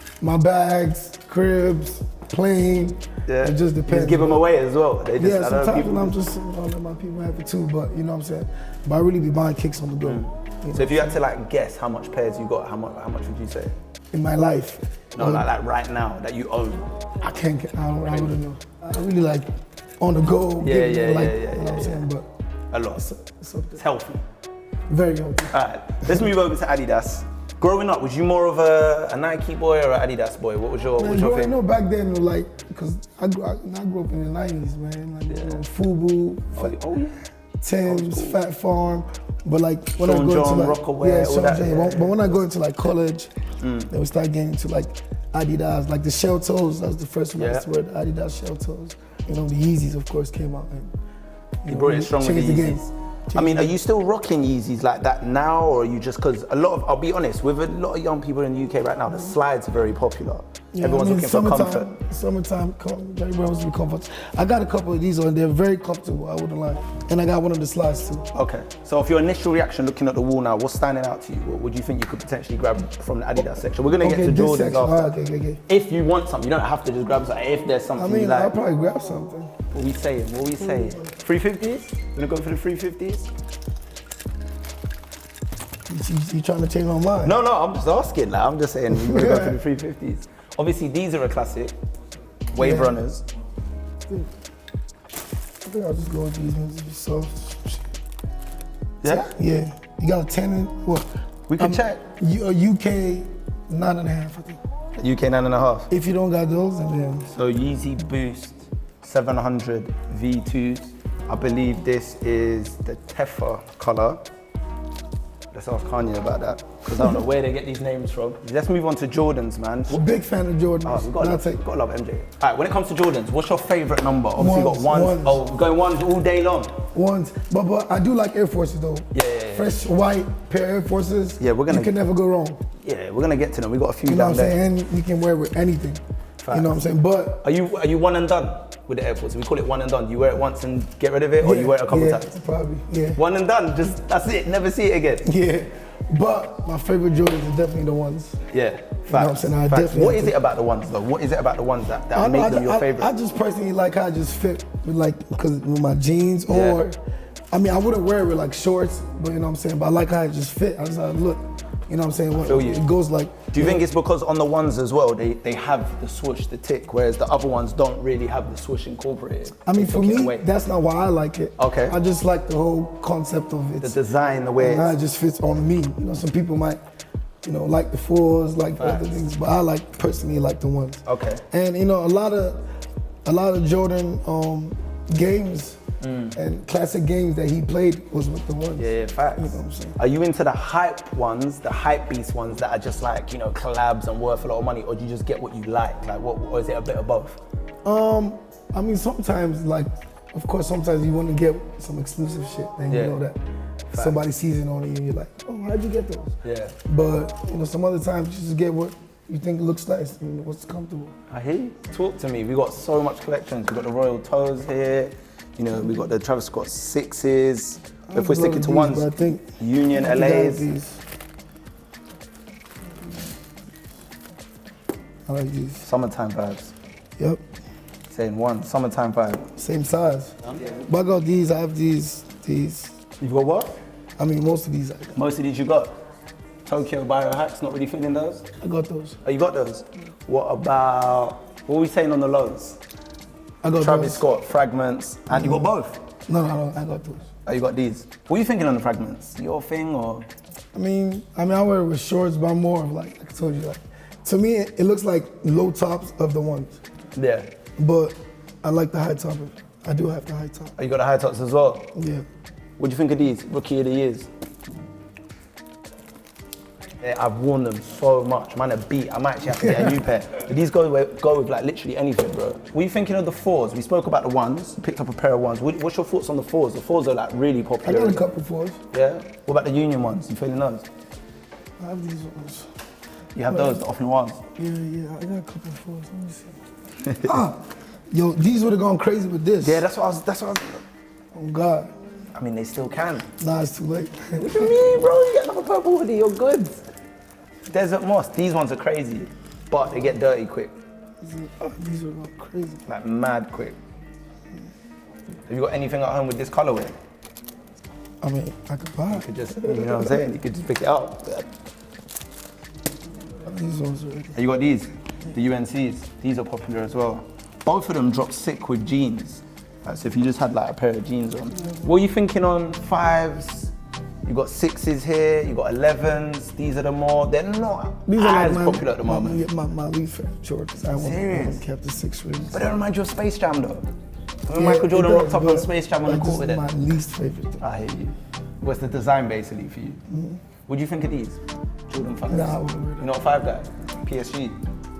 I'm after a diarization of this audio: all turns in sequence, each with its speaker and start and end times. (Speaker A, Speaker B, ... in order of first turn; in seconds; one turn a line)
Speaker A: 0.2-4.4
Speaker B: 3.3-6.2
Speaker A: 5.2-11.2
Speaker B: 10.0-13.7
Speaker A: 14.1-15.5
Speaker B: 15.1-16.9
Speaker A: 17.2-19.5
Speaker A: 20.0-22.3
Speaker B: 20.6-22.1
Speaker B: 22.7-23.0
Speaker A: 22.9-23.8
Speaker B: 23.8-24.2
Speaker A: 24.9-25.5
Speaker B: 25.5-31.5
Speaker A: 31.0-36.8
Speaker B: 35.3-35.6
Speaker B: 36.5-37.3
Speaker A: 37.6-43.3
Speaker B: 37.8-38.4
Speaker B: 40.0-42.4
Speaker B: 43.6-43.9
Speaker A: 43.9-51.0
Speaker B: 47.4-47.6
Speaker A: 51.6-53.8
Speaker B: 51.6-61.9
Speaker A: 60.7-68.3
Speaker B: 68.3-75.1
Speaker A: 74.0-75.6
Speaker B: 75.7-78.5
Speaker A: 78.0-79.5
Speaker B: 79.7-83.3
Speaker A: 85.9-87.3
Speaker B: 87.2-91.7
Speaker A: 88.9-89.6
Speaker B: 92.5-93.2
Speaker A: 92.5-93.0
Speaker A: 95.6-97.9
Speaker B: 99.0-99.3
Speaker A: 99.0-104.6
Speaker B: 101.5-102.0
Speaker B: 105.0-105.9
Speaker A: 105.9-107.3
Speaker B: 107.3-114.2
Speaker B: 115.5-120.0
Speaker A: 119.9-121.6
Speaker B: 120.8-126.8
Speaker A: 124.3-125.4
Speaker A: 126.9-132.6
Speaker B: 129.1-129.7
Speaker B: 131.4-131.9
Speaker B: 132.8-134.6
Speaker A: 134.0-137.4
Speaker B: 136.4-136.8
Speaker B: 137.4-142.3
Speaker A: 141.4-143.2
Speaker B: 143.1-145.3
Speaker A: 145.2-148.4
Speaker B: 148.5-153.1
Speaker A: 149.1-150.3
Speaker A: 152.1-157.0
Speaker B: 156.5-156.8
Speaker A: 157.5-163.8
Speaker B: 162.4-162.8
Speaker B: 163.5-170.5
Speaker A: 169.6-174.0
Speaker B: 171.6-171.9
Speaker B: 173.8-174.9
Speaker A: 174.6-176.8
Speaker A: 177.4-182.6
Speaker B: 178.8-179.2
Speaker B: 181.0-181.4
Speaker A: 183.2-185.8
Speaker B: 186.0-186.3
Speaker A: 186.3-190.0
Speaker B: 188.8-197.4
Speaker A: 197.8-203.4
Speaker B: 202.9-203.2
Speaker B: 203.9-204.2
Speaker A: 203.9-206.3
Speaker B: 206.4-206.8
Speaker A: 206.8-211.1
Speaker B: 211.3-220.7
Speaker A: 218.1-221.0
Speaker A: 225.2-225.8
Speaker B: 225.8-226.7
Speaker A: 227.2-227.4
Speaker B: 228.1-229.5
Speaker A: 229.6-233.0
Speaker B: 230.4-230.7
Speaker B: 233.2-233.8
Speaker A: 234.2-235.2
Speaker B: 235.1-235.9
Speaker B: 236.7-238.4
Speaker A: 238.6-239.2
Speaker B: 239.2-242.8
Speaker A: 243.6-244.2
Speaker B: 243.7-246.0
Speaker A: 245.3-245.7
Speaker A: 246.3-247.3
Speaker B: 247.4-250.3
Speaker A: 250.7-256.8
Speaker B: 257.1-257.5
Speaker A: 257.8-260.7
Speaker B: 260.8-261.9
Speaker A: 261.9-262.2
Speaker B: 262.8-264.3
Speaker B: 267.0-278.2
Speaker A: 277.8-278.8
Speaker B: 278.9-280.9
Speaker A: 281.8-282.7
Speaker B: 283.3-284.4
Speaker A: 283.5-283.8
Speaker A: 284.6-286.6
Speaker B: 287.0-287.3
Speaker A: 287.2-289.8
Speaker B: 289.6-290.8
Speaker A: 291.3-291.9
Speaker B: 292.3-293.3
Speaker A: 293.4-294.8
Speaker B: 294.4-296.8
Speaker B: 297.7-300.7
Speaker A: 301.2-302.8
Speaker B: 302.9-303.8
Speaker B: 305.5-306.9
Speaker A: 308.2-310.2
Speaker B: 309.1-311.5
Speaker A: 313.4-314.4
Speaker B: 314.3-323.7
Speaker A: 321.5-321.9
Speaker B: 324.2-329.4
Speaker A: 328.1-332.7
Speaker B: 330.9-331.6
Speaker B: 332.5-333.9
Speaker B: 334.5-336.6
Speaker A: 334.5-337.6
Speaker B: 337.6-340.0
Speaker A: 340.1-340.4
Speaker B: 340.7-344.6
Speaker A: 342.3-343.1